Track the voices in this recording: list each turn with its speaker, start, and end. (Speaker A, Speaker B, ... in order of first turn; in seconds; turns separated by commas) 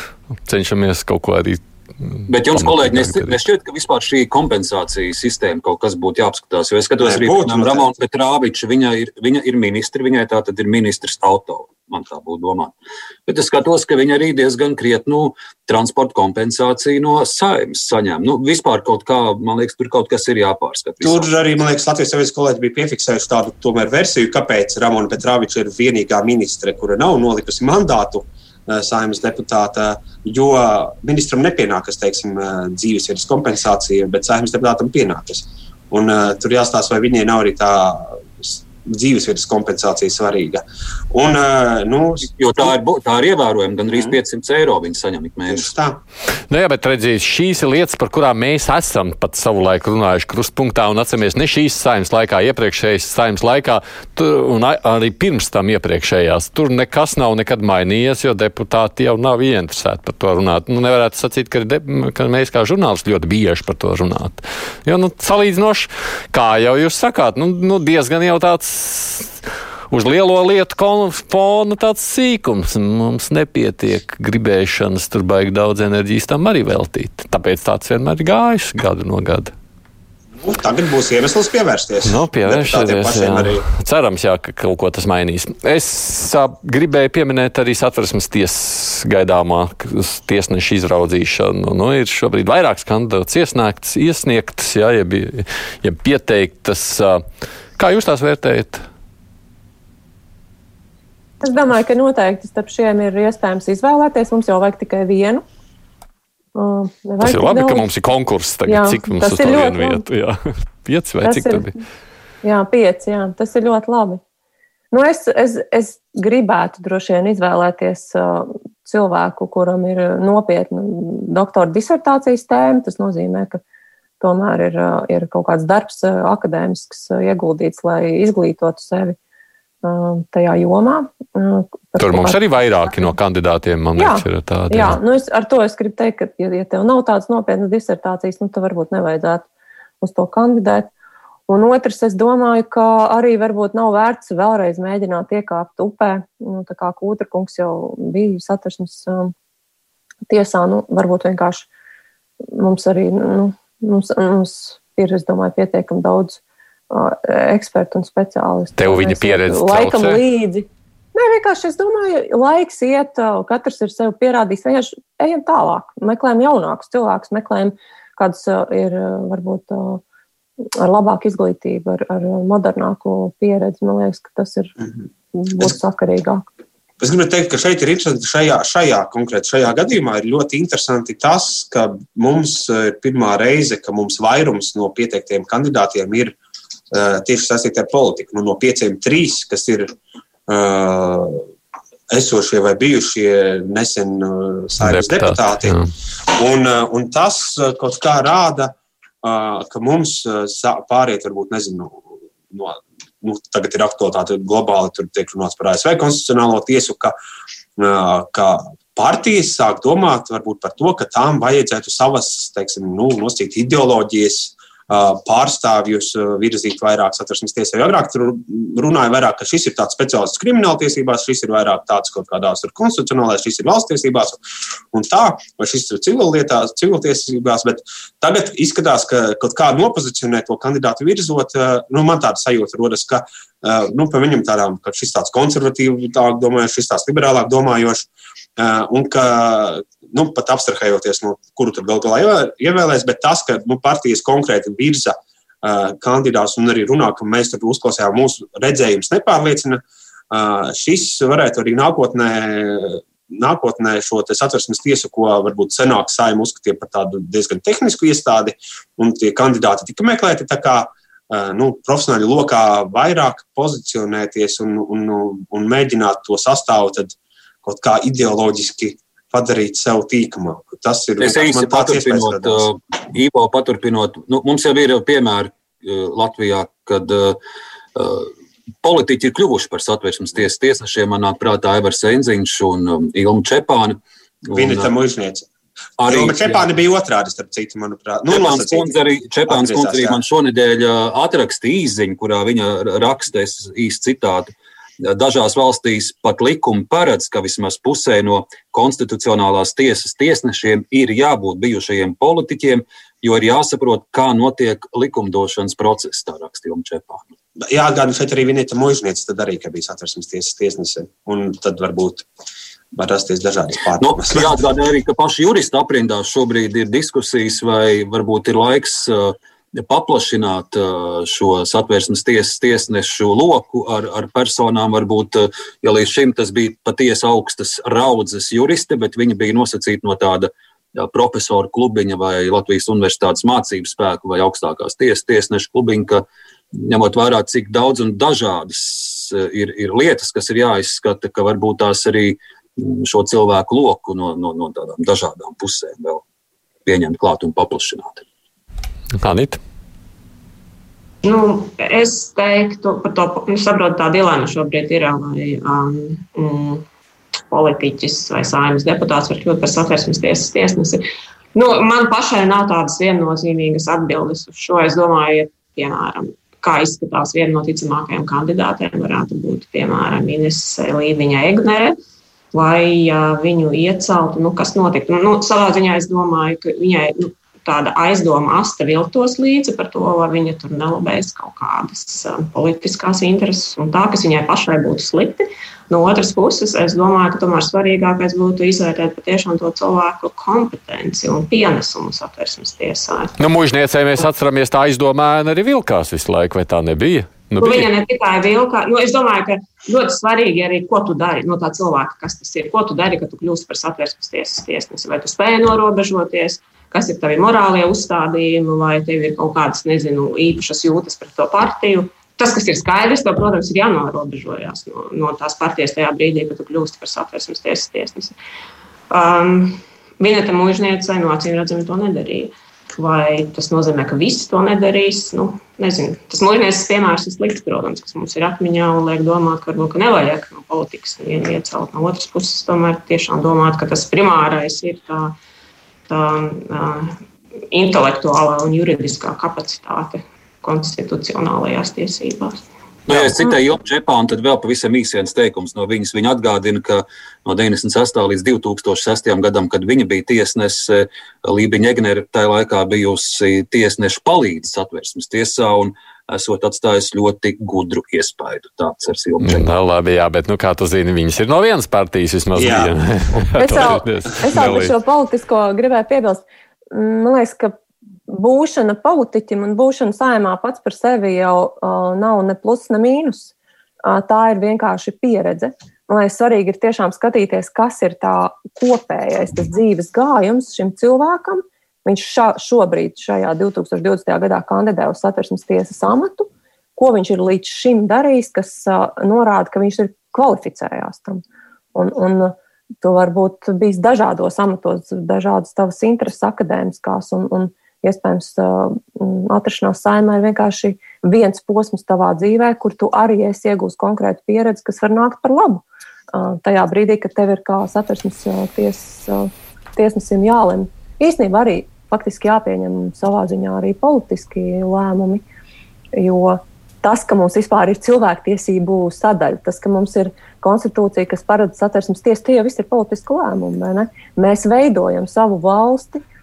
Speaker A: 0.4-3.3, Speaker B: 2.3-12.7, Speaker C: 7.0-7.9, Speaker B: 13.3-21.3, Speaker C: 21.0-42.7, Speaker B: 42.2-45.7, Speaker C: 43.9-44.1, Speaker C: 45.5-46.0, Speaker A: 46.5-69.3, Speaker A: 69.9-79.5, Speaker C: 80.4-83.7, Speaker A: 82.0-97.2, Speaker A: 97.8-98.8, Speaker D: 101.4-105.4, Speaker D: 106.5-107.8, Speaker A: 107.2-111.8, Speaker D: 108.7-110.0, Speaker D: 111.2-111.7, Speaker D: 112.4-114.2, Speaker D: 114.9-123.6, Speaker D: 124.2-129.2, Speaker D: 129.8-132.4, Speaker A: 132.0-135.0, Speaker D: 134.0-139.5, Speaker D: 140.0-140.9, Speaker D: 141.5-149.3, Speaker D: 150.3-151.7, Speaker D: 152.5-170.0, Speaker A: 158.8-160.2, Speaker D: 170.8-174.7, Speaker D: 175.3-176.5, Speaker C: 177.0-186.3, Speaker C: 186.9-189.9, Speaker C: 190.5-191.4, Speaker C: 192.1-195.7, Speaker A: 194.8-195.9, Speaker C: 196.4-207.1, Speaker C: 207.8-224.4, Speaker C: 224.9-272.7, Speaker B: 271.2-277.4, Speaker B: 277.9-284.9, Speaker C: 284.5-285.5, Speaker B: 286.0-286.7, Speaker C: 286.1-288.9, Speaker B: 288.3-294.5, Speaker C: 289.5-290.2, Speaker B: 295.0-307.2, Speaker C: 307.7-312.2, Speaker C: 312.9-314.6, Speaker B: 314.0-346.2, Speaker B: 346.9-348.2, Speaker A: 349.2-349.6, Speaker E: 351.2-356.8, Speaker E: 357.5-361.0, Speaker E: 361.5-371.9, Speaker E: 372.5-393.3, Speaker A: 393.4-397.9, Speaker E: 397.6-418.4, Speaker E: 419.1-435.3, Speaker E: 436.1-437.2, Speaker E: 437.7-442.6, Speaker B: 443.1-459.8, Speaker A: 459.4-464.9, Speaker C: 462.5-462.9, Speaker D: 463.6-467.7, Speaker D: 468.3-473.5, Speaker D: 474.0-491.4, Speaker D: 491.9-515.4, Speaker D: 516.1-526.2